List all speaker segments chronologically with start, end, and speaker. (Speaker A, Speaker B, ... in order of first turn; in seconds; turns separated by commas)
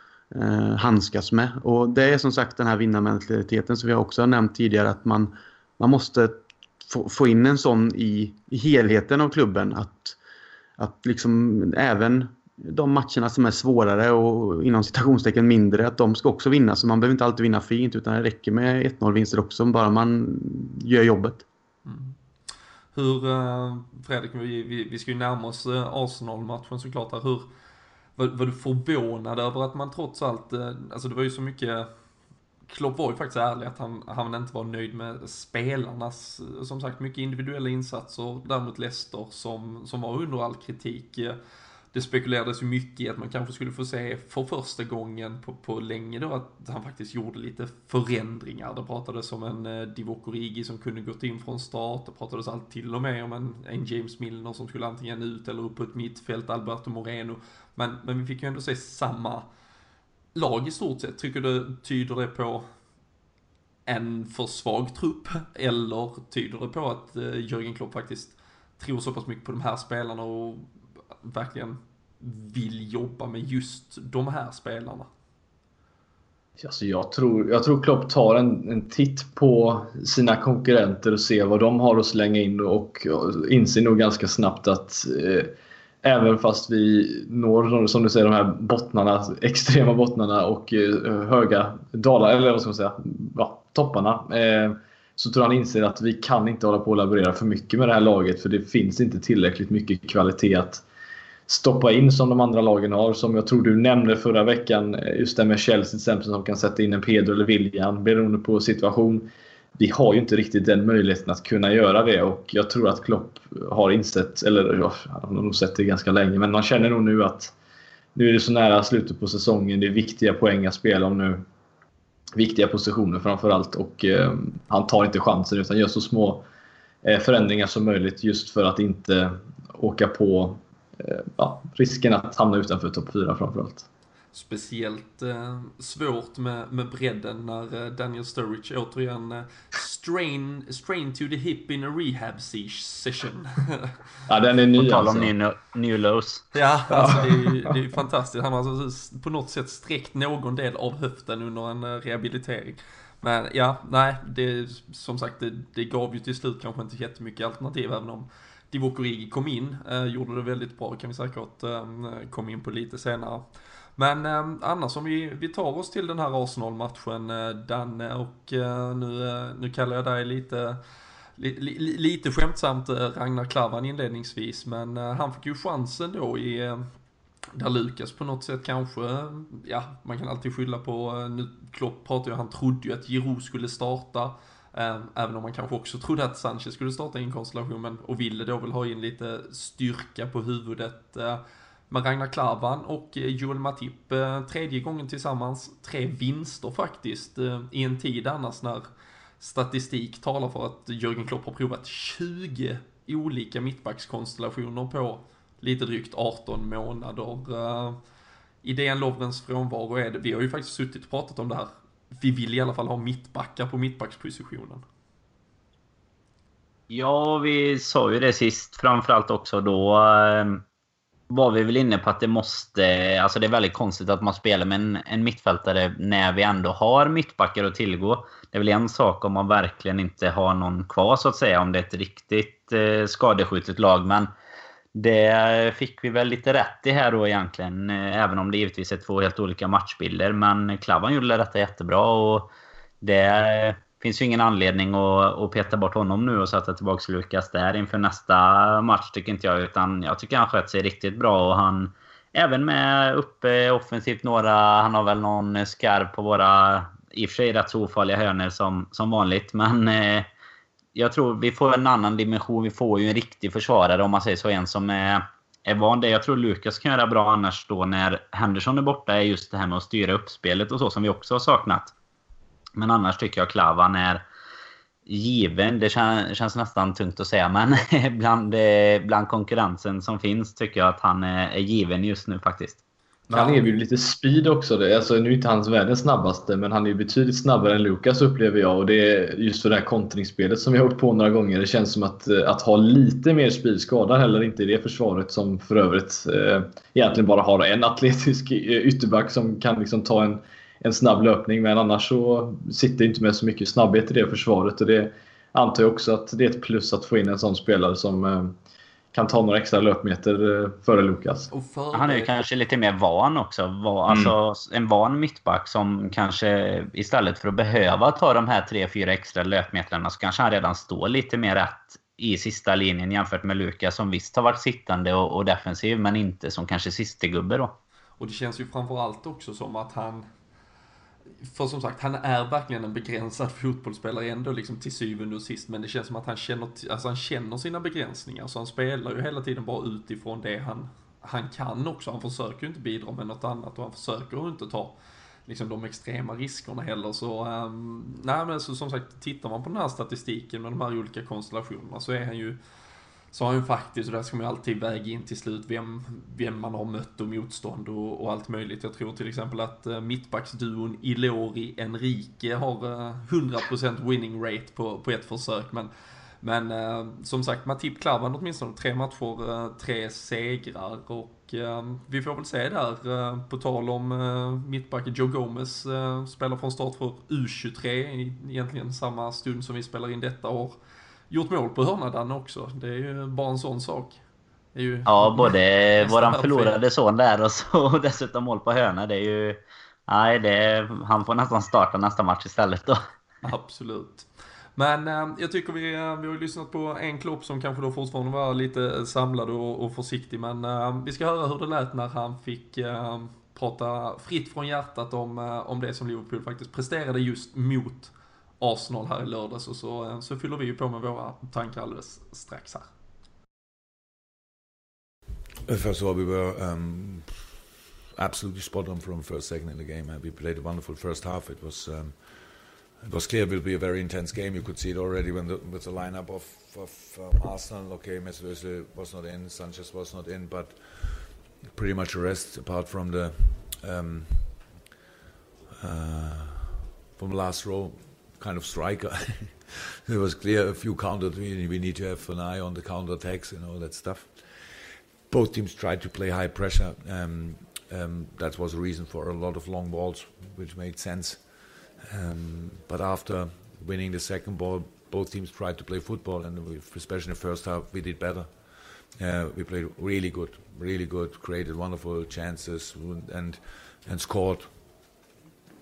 Speaker A: 0.3-10.2, Speaker A: 10.8-21.5, Speaker B: 21.9-22.1, Speaker B: 22.9-27.5, Speaker B: 28.2-31.9, Speaker B: 32.7-41.4, Speaker B: 41.9-59.5, Speaker B: 60.4-62.7, Speaker B: 63.9-70.7, Speaker B: 71.2-75.1, Speaker C: 76.6-85.5, Speaker C: 86.0-100.8, Speaker C: 101.5-117.5, Speaker C: 118.2-121.4, Speaker C: 122.4-126.5, Speaker C: 127.0-133.9, Speaker B: 134.3-143.9, Speaker C: 144.3-145.3, Speaker D: 144.8-146.4, Speaker B: 146.5-163.4, Speaker C: 146.9-147.8, Speaker B: 164.0-170.8, Speaker B: 171.4-176.9, Speaker B: 177.5-198.9, Speaker B: 199.4-208.0, Speaker B: 208.6-214.8, Speaker D: 216.9-220.6, Speaker D: 221.3-234.3, Speaker D: 234.9-242.5, Speaker D: 243.0-260.3, Speaker D: 260.9-271.9, Speaker D: 272.8-274.2, Speaker D: 275.1-282.8, Speaker C: 283.3-308.6, Speaker B: 283.3-283.6, Speaker C: 309.1-311.5, Speaker B: 311.5-312.3, Speaker D: 311.9-327.8, Speaker B: 328.2-330.3, Speaker B: 331.5-344.9, Speaker B: 345.5-352.6, Speaker B: 353.3-365.9, Speaker B: 366.4-380.8, Speaker B: 381.3-384.2, Speaker B: 384.7-386.8, Speaker D: 385.1-393.0, Speaker B: 393.4-412.9, Speaker E: 415.7-417.6, Speaker E: 418.2-434.7, Speaker E: 435.8-464.9